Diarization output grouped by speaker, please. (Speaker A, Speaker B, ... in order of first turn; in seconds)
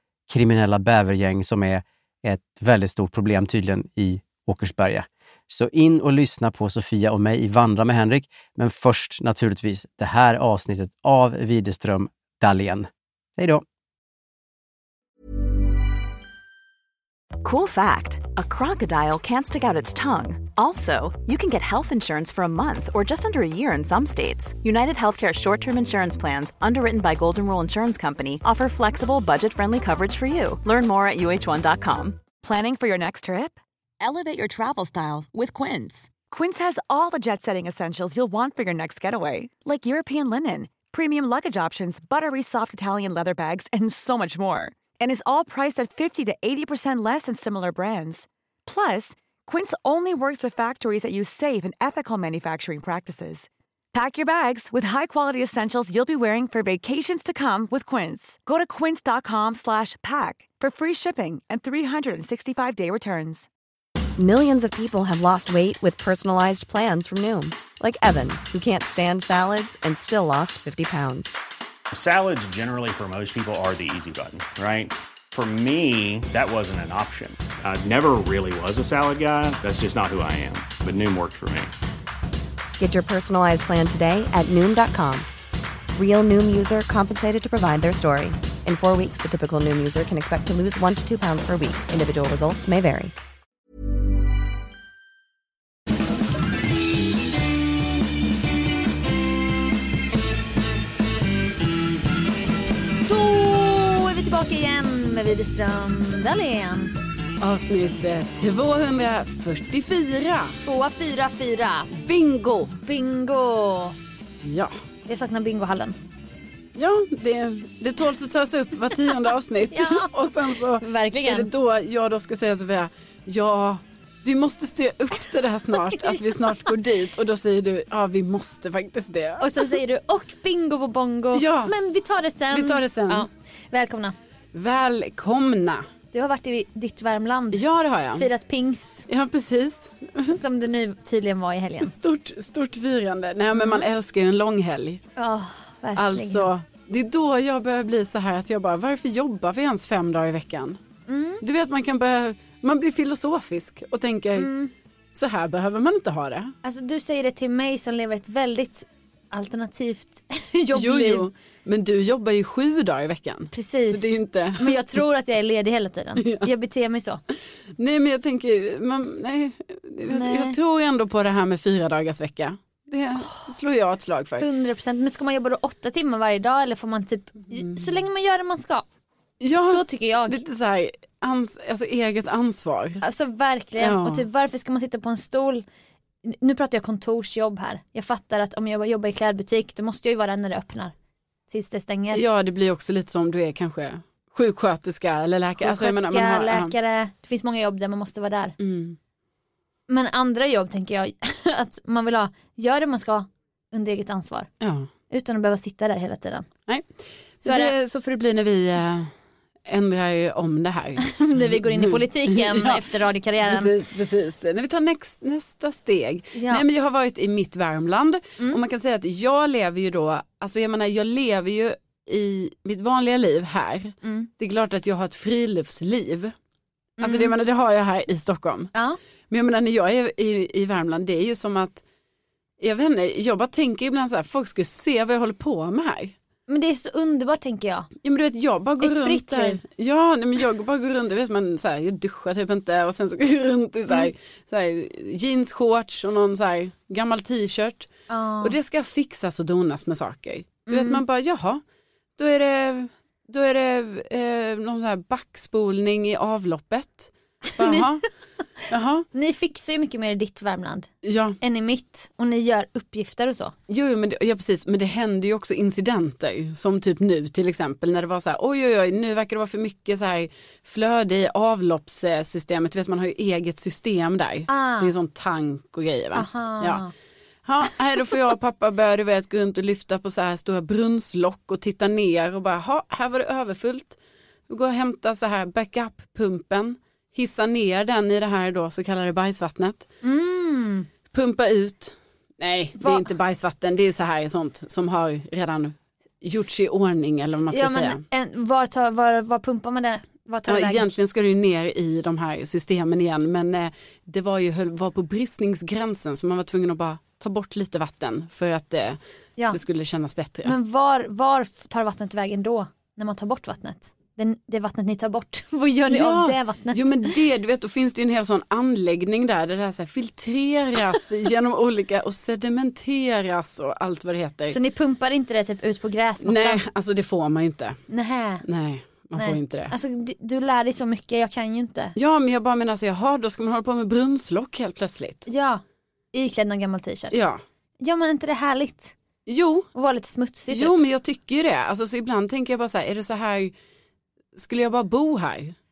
Speaker A: 0.3-13.6
Speaker B: 17.4-32.2
Speaker C: 32.4-63.5
Speaker D: 64.2-71.4, 82.8-85.3, 86.0-93.1
Speaker E: 71.9-81.7
Speaker F: 103.1-106.9, 110.6-111.9, 112.8-114.0, 115.1-116.0, 119.7-120.1, 120.8-121.5, 125.9-126.2, 129.4-134.1, 136.1-139.1, 140.3-142.0, 143.5-143.8, 145.2-146.5, 151.1-151.4, 154.4-154.7, 156.6-161.3, 163.5-167.2, 170.1-170.6, 173.2-173.6, 174.4-178.8, 179.5-180.4, 183.0-185.7, 186.2-190.9, 191.5-192.2, 195.6-198.6, 199.9-204.5, 205.1-206.5, 207.4-207.7, 211.0-213.7, 216.3-216.7, 224.0-224.3, 227.0-227.3, 236.5-237.9, 238.8-239.6, 248.1-248.5, 250.7-251.0, 257.5-257.9, 259.1-260.9, 261.4-263.5, 274.5-274.9, 276.1-276.9, 290.0-290.9, 292.8-293.1, 297.5-300.9, 310.4-317.1, 324.5-326.6, 327.9-328.4, 329.1-331.9, 335.3-335.6, 336.1-337.2, 337.8-338.9, 339.7-340.7
Speaker G: 107.4-110.6, 111.9-112.8, 114.4-114.8, 116.8-129.5, 131.3-131.7, 132.5-133.3, 134.5-135.8, 137.5-138.3, 139.1-140.4, 141.8-145.0, 146.0-150.8, 151.4-154.5, 155.1-156.5, 160.7-164.8, 166.2-166.5, 167.8-174.5, 179.4-183.0, 183.8-184.2, 192.1-196.7, 198.6-199.0, 204.6-204.9, 207.4-209.1, 209.7-226.3, 227.0-228.7, 229.3-231.8, 232.6-236.2, 238.0-247.9, 248.4-251.6, 252.2-258.0, 258.7-259.1, 261.0-261.4, 263.7-276.8, 277.4-289.9, 291.1-298.0, 300.5-309.0, 309.5-310.6, 315.9-324.6, 326.2-327.8, 328.4-329.7, 331.9-335.3, 337.1-337.4, 339.2-339.7, 340.5-343.5, 344.3-345.5